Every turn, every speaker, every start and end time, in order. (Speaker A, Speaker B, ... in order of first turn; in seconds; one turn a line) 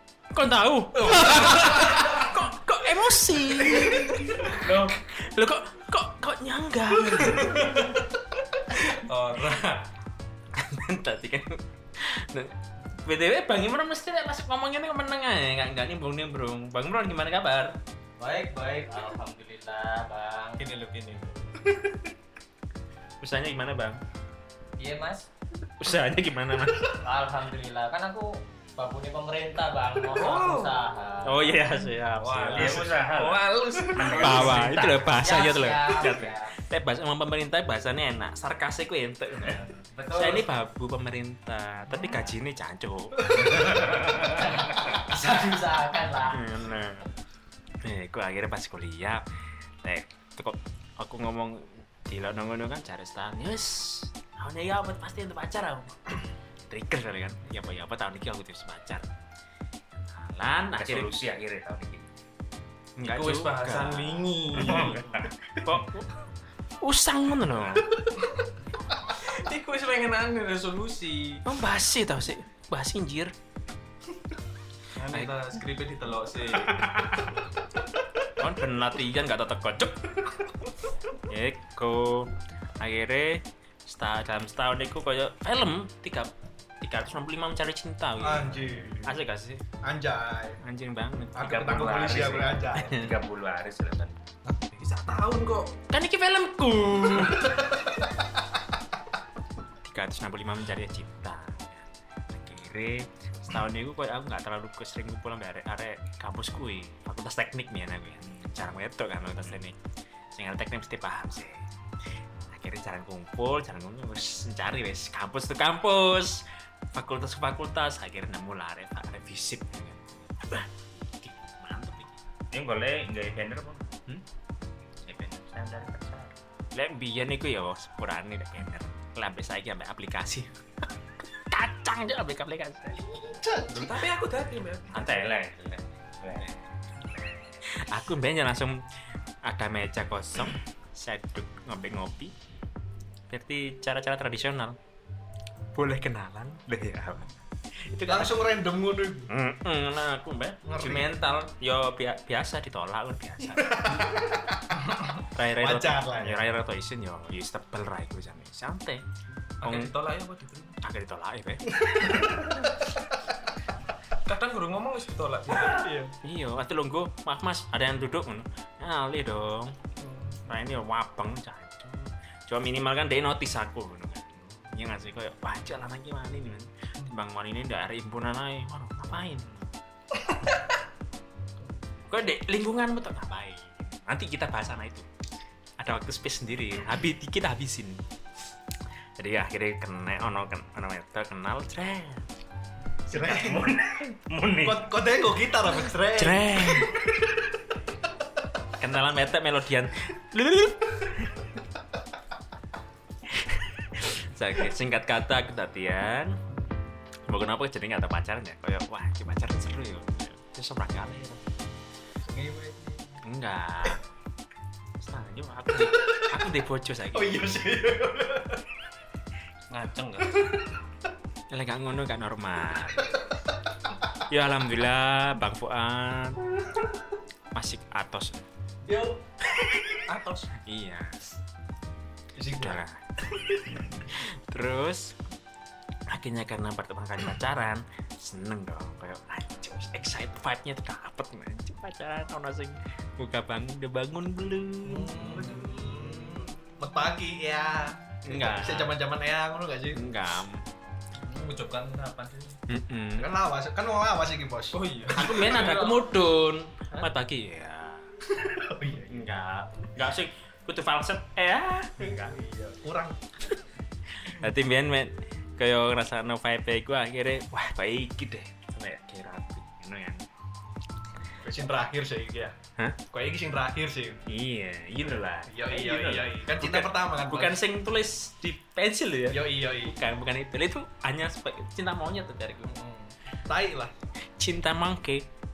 Speaker A: 0.3-7.8
Speaker B: 0.9-2.3
Speaker B: 3.6-4.9
Speaker B: 7.2-8.0
Speaker B: 8.7-9.9
Speaker A: 10.6-17.8
Speaker C: 18.2-20.6
Speaker B: 20.6-21.8
Speaker A: 23.2-24.0
Speaker C: 24.8-25.3
Speaker A: 25.8-27.0
Speaker C: 26.9-31.7
Speaker B: 30.1-30.8
Speaker A: 31.2-32.9
Speaker B: 32.2-34.8
Speaker D: 32.5-35.1
Speaker A: 34.2-43.6
Speaker C: 35.1-36.5
Speaker C: 39.8-40.5
Speaker E: 43.3-43.9
Speaker C: 44.1-46.5
Speaker A: 46.3-47.1
Speaker A: 47.8-49.2
Speaker A: 49.8-59.1
Speaker A: 59.9-61.2
Speaker D: 60.8-62.1
Speaker A: 63.0-65.0
Speaker B: 63.0-65.2
Speaker D: 64.5-65.8
Speaker A: 65.6-66.1
Speaker A: 66.8-68.0
Speaker B: 69.1-71.4
Speaker A: 71.5-73.3
Speaker B: 74.9-76.9
Speaker A: 78.4-80.2
Speaker A: 81.3-89.6
Speaker E: 88.2-89.2
Speaker E: 89.8-90.6
Speaker A: 90.6-93.2
Speaker E: 91.3-93.0
Speaker D: 91.5-94.2
Speaker B: 94.5-95.7
Speaker A: 95.9-97.6
Speaker E: 97.2-98.2
Speaker A: 99.8-109.8
Speaker A: 110.3-111.6
Speaker A: 112.5-122.2
Speaker D: 122.5-123.9
Speaker D: 125.1-126.3
Speaker A: 126.7-130.5
Speaker A: 131.5-133.0
Speaker E: 133.0-134.0
Speaker B: 133.7-135.0
Speaker D: 134.9-136.5
Speaker A: 137.7-138.8
Speaker A: 139.4-142.3
Speaker A: 143.3-144.8
Speaker A: 145.7-147.3
Speaker A: 147.9-148.4
Speaker E: 148.1-149.3
Speaker A: 149.3-154.1
Speaker E: 150.7-151.1
Speaker E: 153.5-156.4
Speaker A: 155.3-159.0
Speaker B: 159.6-160.8
Speaker A: 159.6-159.9
Speaker A: 160.8-162.1
Speaker E: 161.8-162.8
Speaker B: 164.2-165.8
Speaker E: 165.5-166.1
Speaker A: 166.2-169.8
Speaker E: 170.0-170.4
Speaker A: 170.5-179.7
Speaker A: 182.1-185.1
Speaker A: 185.8-188.0
Speaker A: 189.2-192.3
Speaker E: 193.1-193.8
Speaker D: 193.3-194.8
Speaker E: 194.6-197.4
Speaker A: 196.1-197.0
Speaker A: 198.8-201.5
Speaker A: 203.3-206.4
Speaker A: 207.3-211.4
Speaker E: 212.2-213.2
Speaker A: 213.2-214.0
Speaker A: 215.0-217.5
Speaker E: 217.1-218.6
Speaker B: 219.7-220.4
Speaker A: 221.5-223.1
Speaker A: 224.2-226.4
Speaker A: 227.5-228.4
Speaker E: 228.9-229.9
Speaker B: 230.1-230.5
Speaker A: 230.5-231.4
Speaker E: 232.4-232.8
Speaker A: 232.5-233.0
Speaker E: 233.3-233.8
Speaker A: 234.0-235.2
Speaker A: 236.1-245.5
Speaker E: 244.8-250.0
Speaker B: 245.2-246.5
Speaker A: 248.2-248.9
Speaker A: 249.9-250.7
Speaker B: 251.2-252.6
Speaker A: 252.7-253.3
Speaker E: 253.2-255.7
Speaker B: 254.7-256.1
Speaker A: 255.2-258.1
Speaker E: 258.4-259.3
Speaker A: 259.1-262.4
Speaker E: 262.0-263.2
Speaker A: 264.1-270.3
Speaker E: 271.4-272.6
Speaker E: 273.1-274.2
Speaker A: 274.3-282.8
Speaker E: 275.5-277.6
Speaker E: 279.3-279.9
Speaker E: 282.7-283.9
Speaker A: 284.4-285.3